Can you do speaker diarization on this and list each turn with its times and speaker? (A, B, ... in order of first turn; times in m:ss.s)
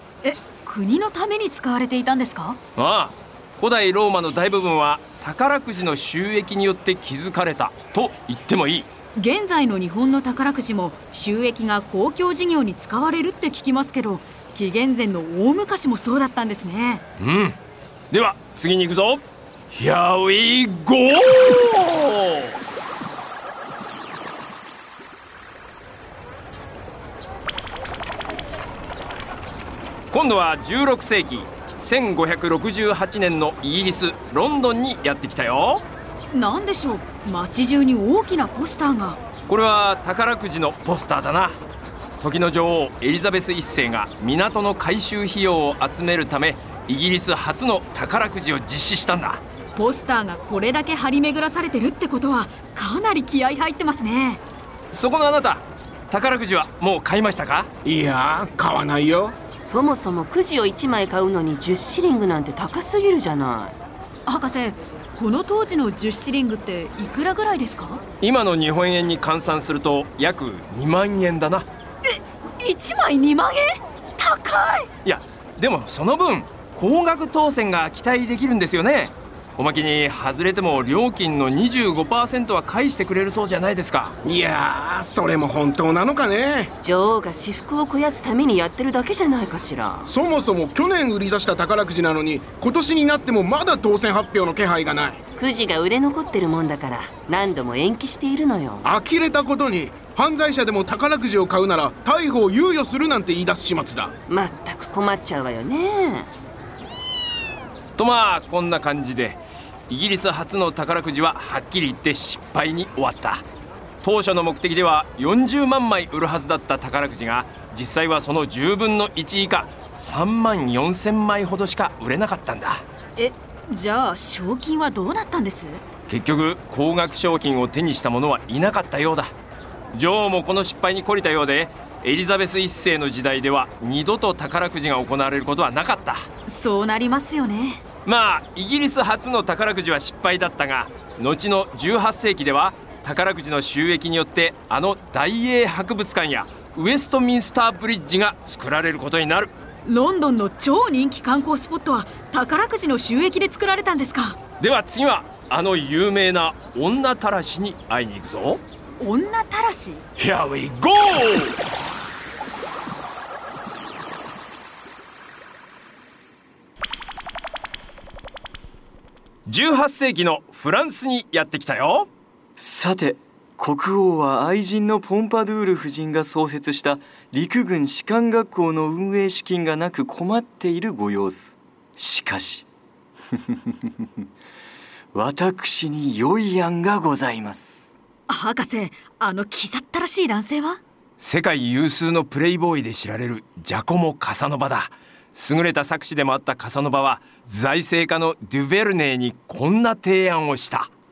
0:00.2-0:02.6 A
0:02.8-0:08.9 B
0:09.1-0:17.0 A
0:17.2-0:17.6 B
0:18.1-0:22.6 B
0:30.1-0:35.8 B
0:36.3-0:39.2 A
0:39.5-0:41.6 B
0:42.2-0:49.4 B
0:49.7-0:54.4 A
0:54.9-0:57.7 B
0:57.8-0:59.3 C
0:59.6-1:03.8 D
1:04.2-1:08.0 A
1:08.2-1:11.7 B
1:12.1-1:14.9 A
1:15.0-1:24.2 B
1:24.2-1:26.7 C
1:26.8-1:30.1 D
1:30.0-1:35.2 C
1:35.4-1:38.8 D
1:38.8-1:44.1 C
1:44.3-1:46.3 D
1:48.0-1:53.4 B
1:54.0-2:02.8 B
2:03.2-2:05.8 A
2:06.1-2:09.3 B
2:09.9-2:16.2 B
2:16.5-2:17.8 A
2:18.0-2:29.5 B
2:29.8-2:34.4 A
2:34.6-2:38.6 B
2:39.0-2:40.0 A
2:40.2-2:41.6 B
2:49.5-2:52.1 B
2:52.6-3:02.6 E
3:05.1-3:07.9 E
3:08.3-3:10.8 A
3:11.2-3:20.9 B